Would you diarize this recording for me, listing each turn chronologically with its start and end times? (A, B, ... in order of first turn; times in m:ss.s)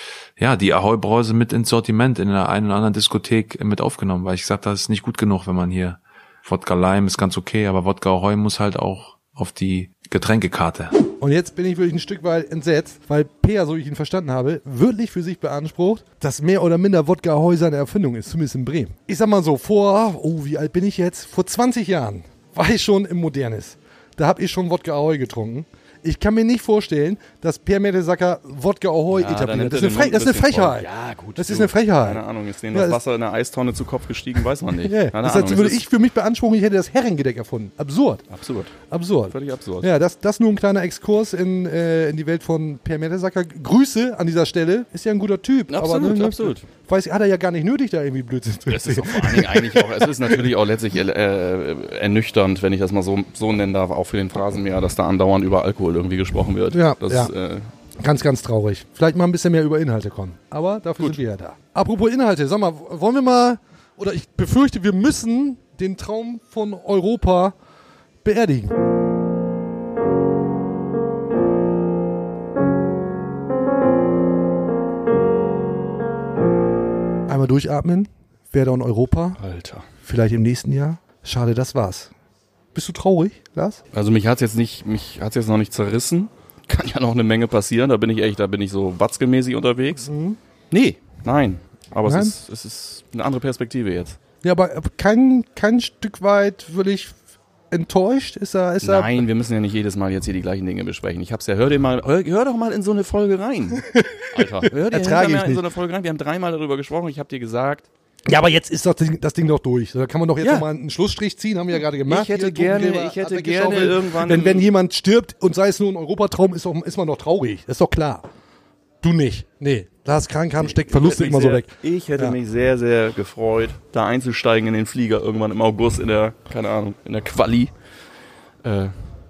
0:00.4-0:10.9 A
0:11.2-0:33.0 B
0:29.1-0:35.8 C
0:34.8-0:38.2 B
0:38.3-0:38.7 C
0:38.9-0:50.4 B
0:39.3-0:39.9 C
0:45.7-0:46.6 C
0:48.7-0:57.7 C
0:56.7-0:57.3 B
0:58.0-1:07.5 B
1:08.2-1:08.8 B
1:17.3-1:19.4 B
1:19.4-1:19.8 C
1:20.0-1:22.1 B
1:22.7-1:23.8 B
1:23.9-1:30.1 C
1:30.0-1:30.4 B
1:30.7-1:34.2 C
1:32.0-1:32.3 B
1:34.4-1:37.1 B
1:37.7-1:39.2 B
1:38.8-1:47.9 C
1:43.9-1:45.6 B
1:48.3-1:58.2 B
1:50.4-1:50.6 C
1:52.1-1:54.7 C
1:59.0-2:02.4 B
2:00.6-2:07.7 C
2:08.6-2:08.9 C